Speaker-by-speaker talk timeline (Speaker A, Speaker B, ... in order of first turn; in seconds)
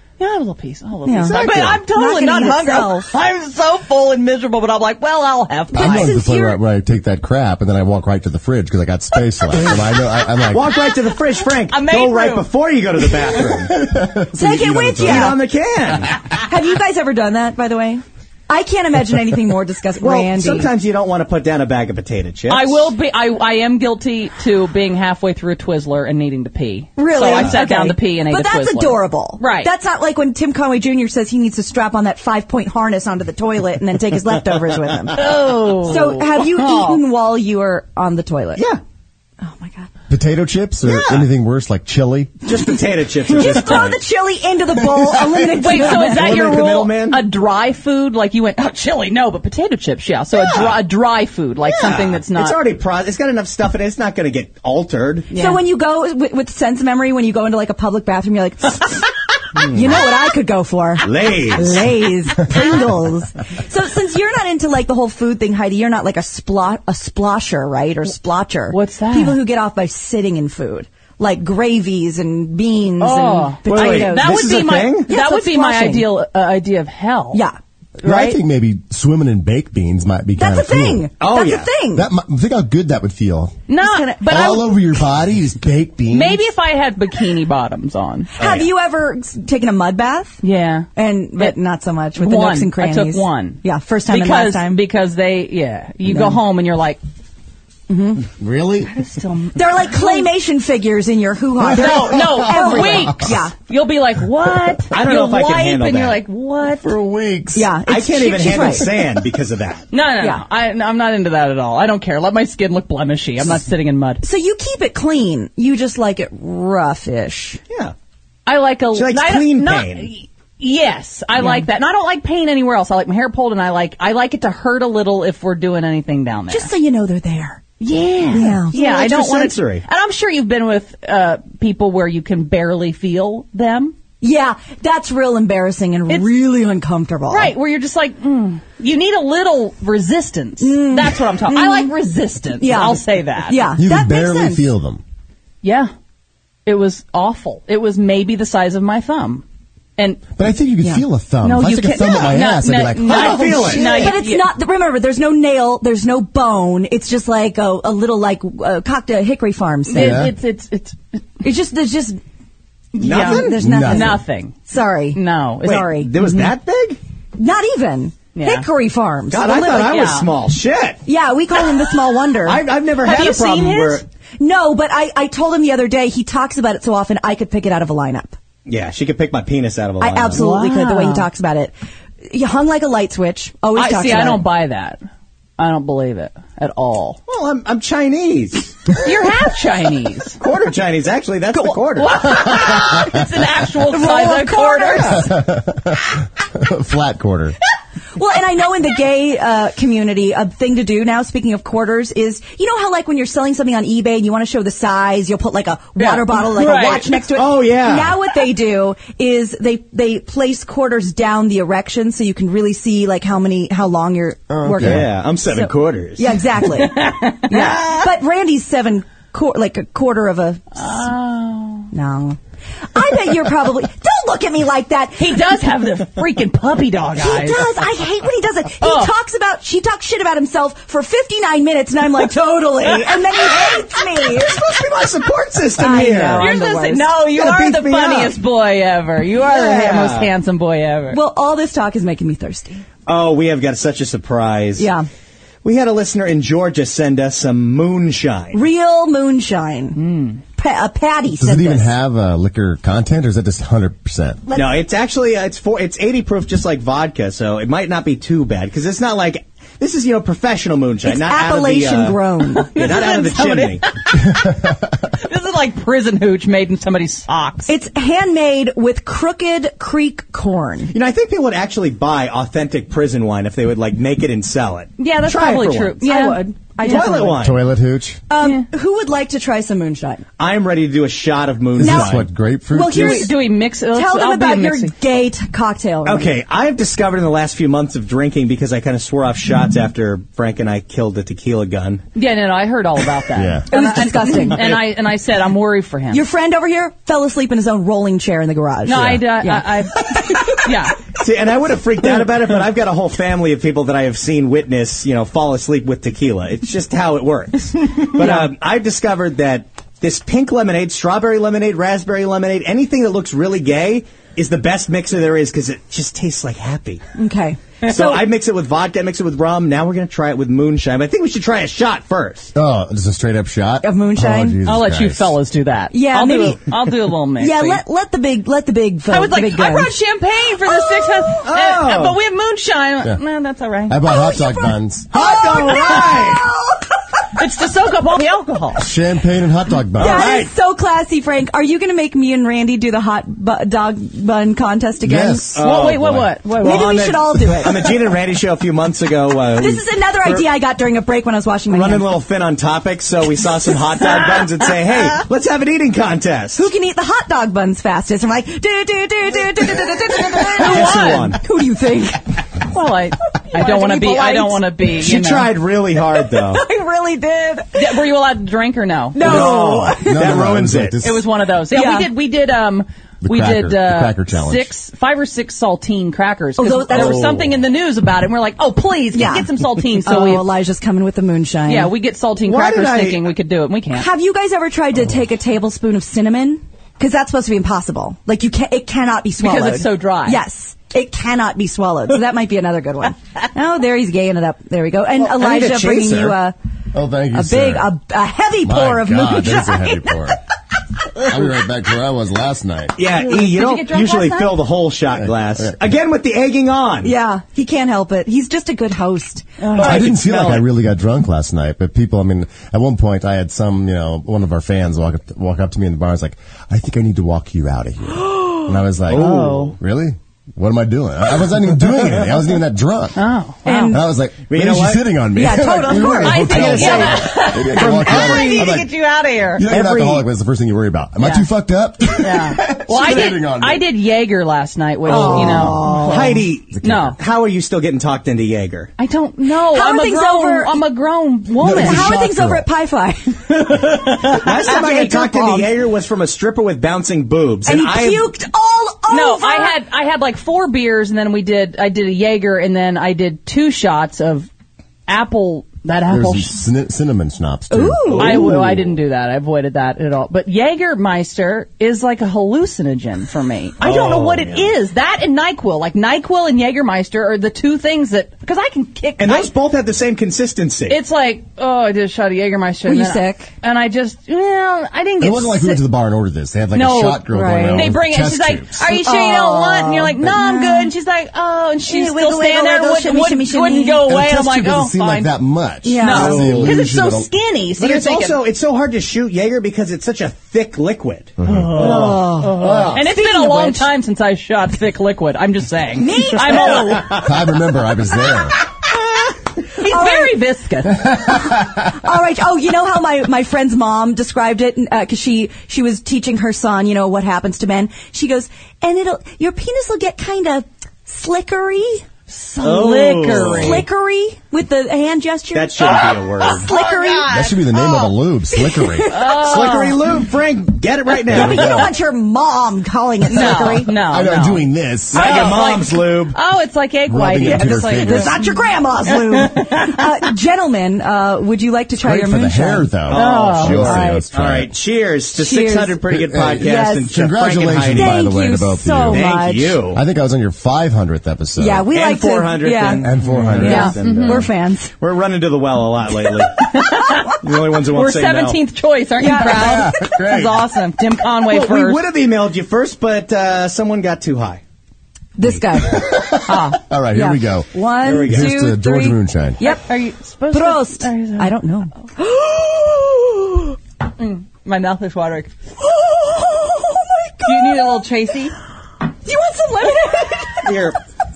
Speaker A: 0.2-6.2, 11.7-12.5, 22.5-29.7, 35.1-37.0, 45.5-52.6, 55.3-55.6, 68.7-69.4, 73.0-77.4, 78.0-78.4, 83.7-84.8, 86.1-88.3, 90.4-91.6, 92.2-97.0, 98.9-100.3, 101.7-106.9, 109.9-114.2, 118.5-126.7, 127.8-133.9, 137.3-143.7, 145.6-145.9, 146.7-149.4, 151.4-154.5, 159.9-161.2, 162.9-164.6, 165.1-166.5, 168.3-168.7, 169.8-170.3, 173.0-174.0, 180.3-181.3, 183.7-185.0, 185.6-187.2, 189.0-190.4, 191.9-195.3, 206.0-207.2, 216.6-218.1, 220.7-221.9, 225.2-227.8, 228.8-229.1, 236.4-241.2, 249.9-250.4, 262.5-267.7, 275.0-277.3, 278.4-278.7, 282.8-284.9, 292.1-296.2, 298.9-301.0, 324.6-327.8, 329.1-334.1, 337.3-338.9, 345.6-347.0, 360.6-361.4, 362.6-365.5, 367.7-369.4, 371.0-380.5, 381.7-384.1, 389.4-390.4, 403.2-404.5, 409.6-410.0, 419.1-419.7, 423.1-424.0, 426.1-429.7, 431.2-431.5, 432.2-436.3, 436.8-437.1, 439.0-442.1, 449.1-454.5, 455.1-456.6, 458.2-469.5, 470.9-475.8, 476.7-485.3, 486.0-488.4, 491.4-497.3, 499.7-501.0, 512.3-513.8, 515.9-517.6, 519.1-520.0, 523.3-530.0, 533.1-533.9, 543.6-544.5, 546.5-552.0, 556.5-556.8, 559.6-561.5, 564.2-565.5, 567.4-568.5
Speaker B: 1.1-3.1, 5.7-6.6, 14.3-15.4, 16.3-20.7, 26.9-38.6, 39.4-39.9, 43.3-46.5, 55.3-74.3, 75.1-76.1, 80.3-82.0, 83.8-84.6, 88.4-90.4, 91.0-94.8, 96.1-96.4, 97.9-98.2, 99.5-103.5, 107.5-109.2, 114.2-117.6, 121.4-121.7, 126.5-127.6, 128.3-128.7, 134.2-137.5, 140.6-141.9, 142.6-144.6, 153.7-160.3, 161.4-162.2, 163.0-166.1, 167.4-170.2, 171.1-172.6, 174.4-178.3, 180.0-181.7, 182.2-184.4, 193.8-195.3, 198.2-220.9, 221.9-222.4, 222.9-225.4, 227.2-234.7, 235.8-237.1, 241.1-242.8, 244.8-245.1, 248.5-251.9, 254.5-254.7, 261.0-263.1, 267.7-270.9, 276.0-277.5, 278.3-280.2, 281.8-282.1, 282.7-286.3, 293.7-294.8, 296.1-300.6, 308.2-308.4, 317.1-318.2, 323.8-324.6, 325.9-326.8, 327.4-329.9, 330.6-331.4, 334.0-337.2, 340.0-345.5, 346.6-347.9, 349.6-352.1, 356.6-362.3, 363.5-364.6, 366.1-368.0, 369.1-370.4, 371.7-372.1, 376.6-377.4, 379.1-381.9, 383.9-396.5, 397.3-400.3, 407.0-409.5, 423.6-424.0, 425.3-426.6, 435.1-436.4, 439.6-440.8, 441.6-445.7, 447.6-449.8, 457.7-458.5, 472.9-473.5, 477.3-477.9, 478.9-480.9, 481.8-484.0, 485.8-486.6, 491.7-493.9, 496.0-497.2, 499.8-500.4, 501.0-512.0, 513.3-520.0, 521.3-523.9, 527.4-532.9, 533.8-534.3, 535.4-536.0, 536.6-537.1, 537.9-539.8, 541.6-544.9, 549.2-550.0, 555.4-556.4, 557.1-559.8, 560.5-563.8, 565.8-568.0, 569.2-570.9
Speaker C: 1.2-1.8, 10.5-13.8, 14.8-16.2, 20.0-22.9, 27.2-27.5, 40.8-41.3, 42.5-44.0, 45.7-47.2, 50.4-50.8, 51.6-55.3, 59.5-60.0, 61.0-61.9, 73.7-75.1, 81.2-81.7, 88.4-88.7, 104.9-106.2, 107.9-109.9, 118.9-120.1, 128.7-129.8, 153.0-154.2, 163.0-163.7, 165.6-167.0, 169.3-171.0, 172.4-174.0, 178.7-180.4, 187.3-188.9, 190.4-192.3, 207.3-208.2, 214.8-216.5, 233.5-236.5, 237.3-238.3, 239.4-240.3, 243.1-244.9, 245.6-248.6, 254.5-262.2, 262.7-263.8, 270.9-276.0, 276.8-277.6, 280.4-282.3, 286.0-292.1, 301.2-317.0, 317.8-322.5, 331.4-332.2, 335.1-336.5, 340.0-340.5, 345.5-350.4, 351.7-356.7, 360.5-361.4, 364.9-366.6, 369.2-371.0, 376.9-377.5, 382.4-383.2, 395.2-396.4, 403.0-407.1, 409.8-410.7, 419.1-419.7, 424.5-425.1, 426.3-428.9, 429.6-430.2, 435.1-438.9, 443.5-448.3, 458.1-458.8, 463.8-464.7, 469.2-471.0, 486.1-486.8, 487.8-492.9, 496.5-497.2, 512.6-513.8, 515.5-516.7, 519.4-521.9, 525.1-526.4, 533.0-538.2, 539.1-540.0, 541.9-544.5, 545.0-546.7, 547.4-548.6, 551.5-554.6, 558.0-558.6, 570.6-571.0
Speaker D: 5.7-10.7, 13.5-15.3, 40.1-42.4, 44.8-45.5, 78.0-81.1, 81.9-83.6, 84.2-86.5, 98.4-98.9, 101.8-103.4, 106.8-107.7, 143.8-145.0, 150.4-154.1, 159.9-160.3, 163.6-164.2, 195.1-197.6, 214.5-215.1, 251.3-254.4, 277.4-278.2, 281.8-283.3, 293.3-293.7, 322.5-325.3, 333.9-335.1, 338.8-340.3, 345.0-346.2, 370.0-371.3, 373.2-374.7, 396.9-397.9, 398.6-400.4, 401.2-402.9, 405.2-405.8, 409.7-423.2, 423.9-428.9, 429.5-433.9, 435.2-436.0, 436.7-437.1, 441.6-442.7, 456.1-458.6, 475.2-478.8, 484.0-487.3, 491.4-493.0, 497.0-498.6, 500.9-502.0, 517.3-519.1, 521.3-521.9, 523.4-525.4, 527.1-528.4, 532.0-534.7, 536.1-539.2, 539.9-541.9, 543.0-544.5, 549.4-550.7, 555.8-559.6